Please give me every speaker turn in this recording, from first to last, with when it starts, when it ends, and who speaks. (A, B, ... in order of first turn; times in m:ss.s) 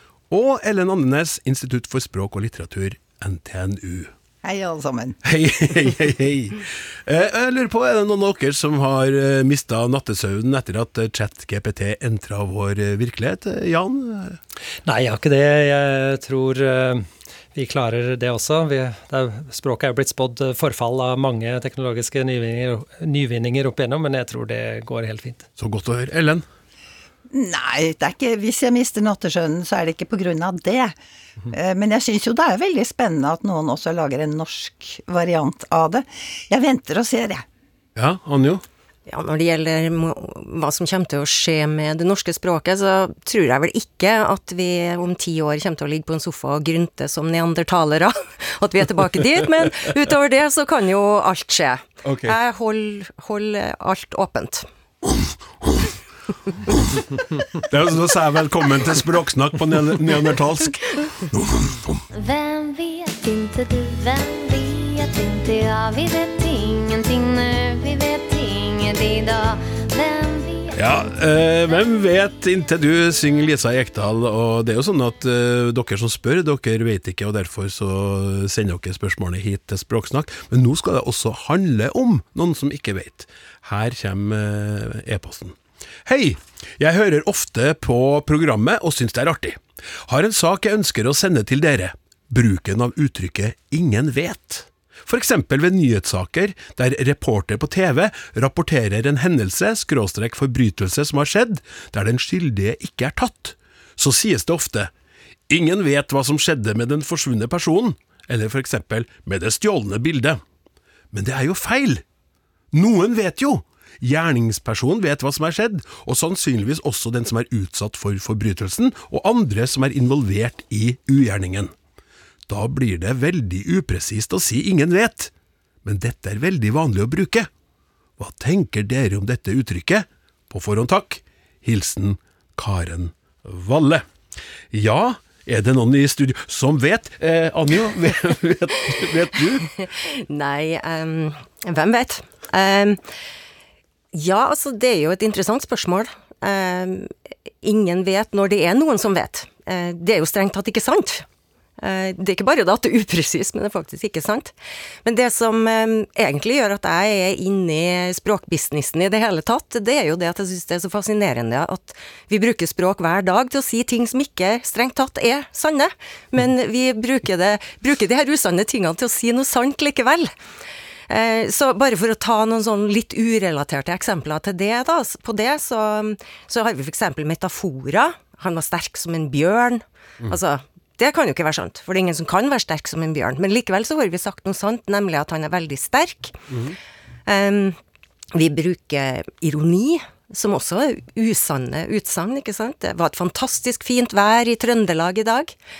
0:00.3-0:04.1 A
0:04.4-0:05.2 B
0:05.2-0:14.4 A
0:14.8-0:25.5 C
0:25.6-0:26.4 A
0:27.3-0:31.0 B
0:31.5-0:37.4 B
0:38.0-0:38.6 A
0:39.1-0:54.6 D
0:52.0-0:52.3 A
0:55.0-0:55.9 A
0:56.6-0:57.0 A
0:57.5-1:02.0 A
1:02.1-1:10.8 E
1:10.7-1:44.9 A
1:45.5-1:50.4 A
1:51.1-1:52.0 A
1:52.7-2:01.7 A
2:02.5-2:05.3 A
2:05.8-2:07.5 A
2:08.2-2:14.0 A
2:14.7-2:19.7 A
2:19.8-2:23.0 D
2:24.1-2:31.2 D
2:31.8-2:50.3 D
2:51.1-3:06.4 D
3:06.5-3:06.8 A
3:07.3-3:07.8 D
3:08.3-3:15.6 D